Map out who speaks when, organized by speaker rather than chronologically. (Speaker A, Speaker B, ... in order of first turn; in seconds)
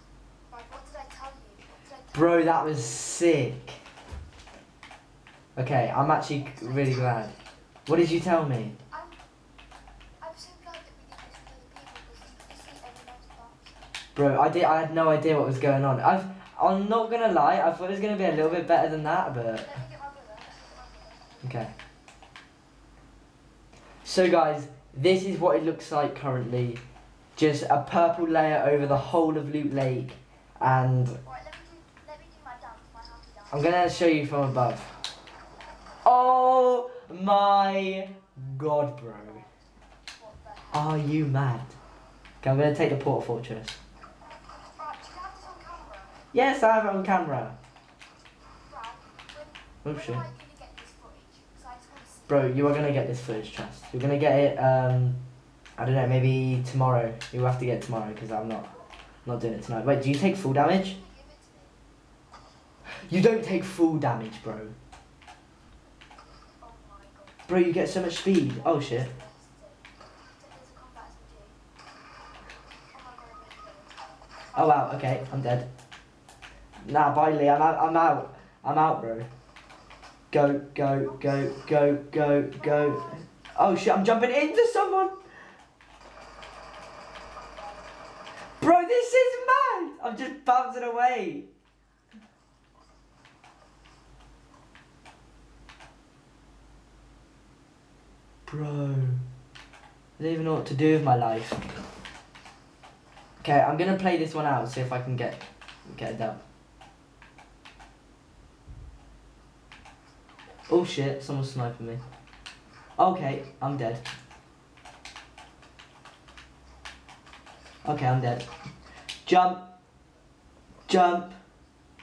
Speaker A: 0.5-2.9, 6.2-7.5, 8.7-9.2, 10.2-13.8, 19.6-21.9, 31.2-34.4, 39.2-39.5, 40.1-41.1, 44.6-46.2, 48.6-52.8, 60.6-61.8, 66.6-67.5, 68.4-71.6, 72.9-75.3, 81.1-81.7, 82.5-83.3, 87.3-88.0
Speaker B: 2.1-3.8, 5.6-7.3, 7.9-8.7, 14.2-19.7, 21.4-21.7, 24.0-26.8, 27.4-31.2, 33.5-34.9, 36.0-39.4, 40.7-41.7, 42.4-43.8, 46.3-47.5, 49.8-50.2, 52.3-55.2, 55.8-58.7, 59.2-61.0, 63.1-64.7, 67.5-69.1, 74.5-75.7, 76.8-79.3, 80.3-85.2, 88.6-91.5, 98.5-99.2, 100.2-101.6, 103.4-106.4, 110.7-112.0, 113.0-114.0, 117.8-118.5, 119.2-119.7, 120.9-121.4